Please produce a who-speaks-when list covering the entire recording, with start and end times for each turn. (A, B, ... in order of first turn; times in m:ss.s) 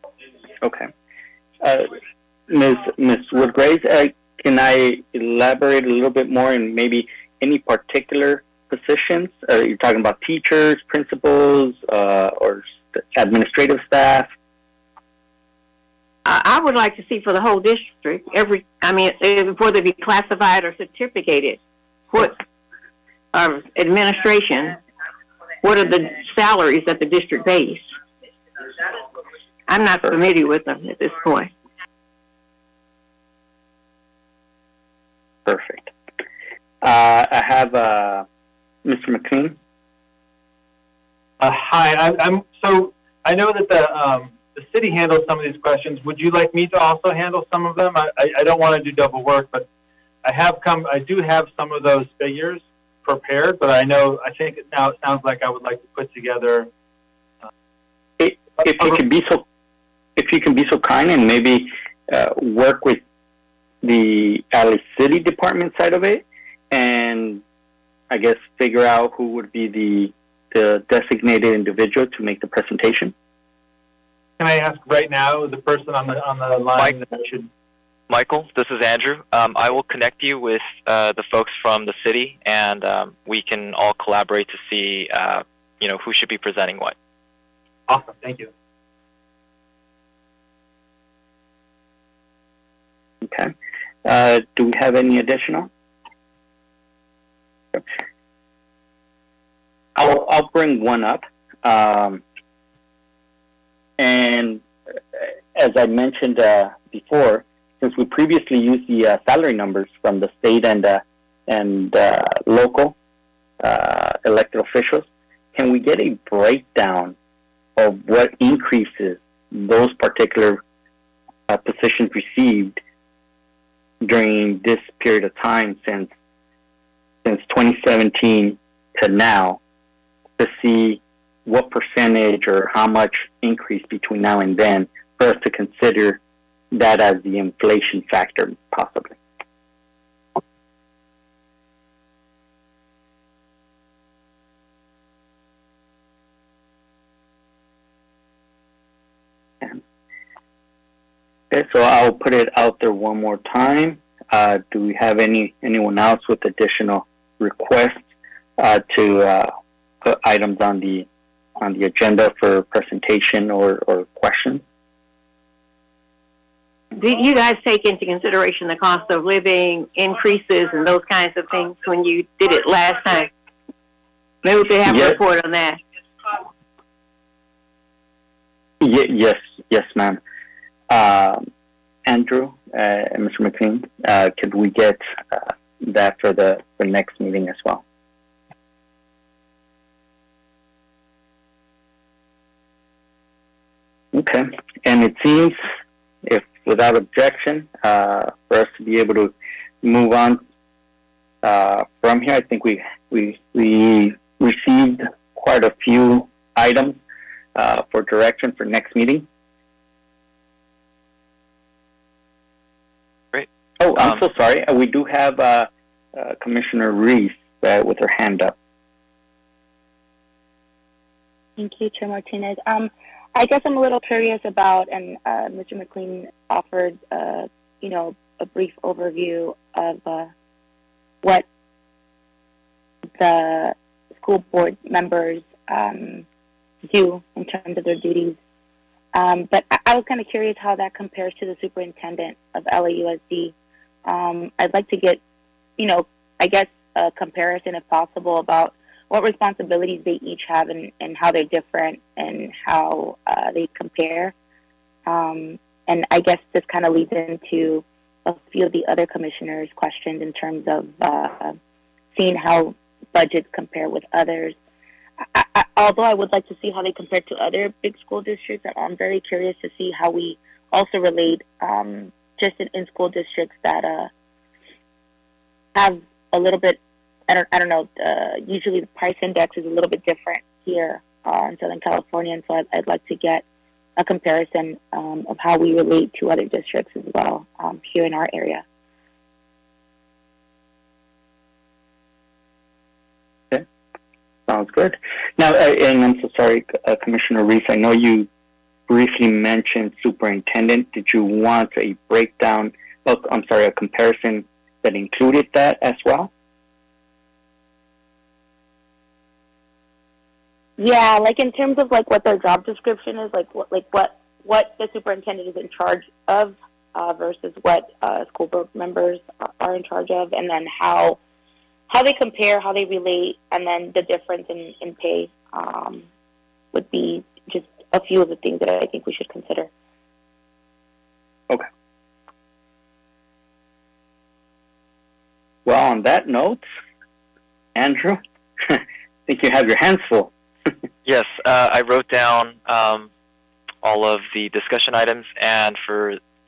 0:00.6-0:00.9 A
0:01.6-0:02.0 A
0:02.5-0:14.3 A
0:16.2-0:21.6 B
0:22.1-0:22.4 B
0:23.3-0:24.8 B
0:25.6-0:27.9 B
0:29.7-0:31.5 B
0:35.4-0:35.9 A
0:36.8-0:38.2 A
0:38.8-0:39.6 A
0:41.4-0:49.7 C
0:50.2-0:56.7 C
0:58.2-0:59.4 A
1:00.2-1:03.0 A
1:03.8-1:07.4 A
1:08.1-1:13.1 A
1:14.4-1:17.5 C
1:18.1-1:26.9 D
1:27.9-1:28.5 C
1:33.2-1:33.5 A
1:34.0-1:35.7 A
1:40.0-1:42.2 A
1:44.0-1:53.0 A
1:53.6-1:57.2 A
1:57.8-2:00.6 A
2:01.5-2:02.8 A
2:04.0-2:06.1 A
2:07.2-2:09.6 A
2:10.4-2:16.2 A
2:16.7-2:19.2 A
2:31.5-2:38.0 A
2:38.6-2:39.5 A
2:40.0-2:41.1 A
2:41.6-2:44.6 A
2:46.9-2:53.3 B
2:54.4-2:55.8 B
2:54.8-2:55.2 A
2:58.8-3:00.2 A
3:00.9-3:01.5 A
3:02.0-3:07.8 A
3:14.1-3:15.7 A
3:16.2-3:20.4 A
3:21.4-3:27.0 A
3:27.5-3:29.2 A
3:33.3-3:34.2 D
3:33.8-3:38.5 A
3:41.6-3:50.3 E
3:53.2-3:56.2 E
3:56.9-3:58.4 E
3:59.1-4:03.5 E
4:04.0-4:05.2 E
4:05.8-4:14.3 E
4:15.1-4:21.6 E
4:22.2-4:24.6 E
4:25.3-4:34.1 E
4:35.7-4:43.4 E
4:44.0-4:48.6 E
4:54.5-4:58.3 A
4:58.9-5:06.3 A
5:10.8-5:21.2 E
5:21.9-5:26.0 E
5:26.7-5:29.7 E
5:35.6-5:36.6 A
5:37.7-5:40.7 A
5:41.0-5:43.1 D
5:43.8-5:46.2 D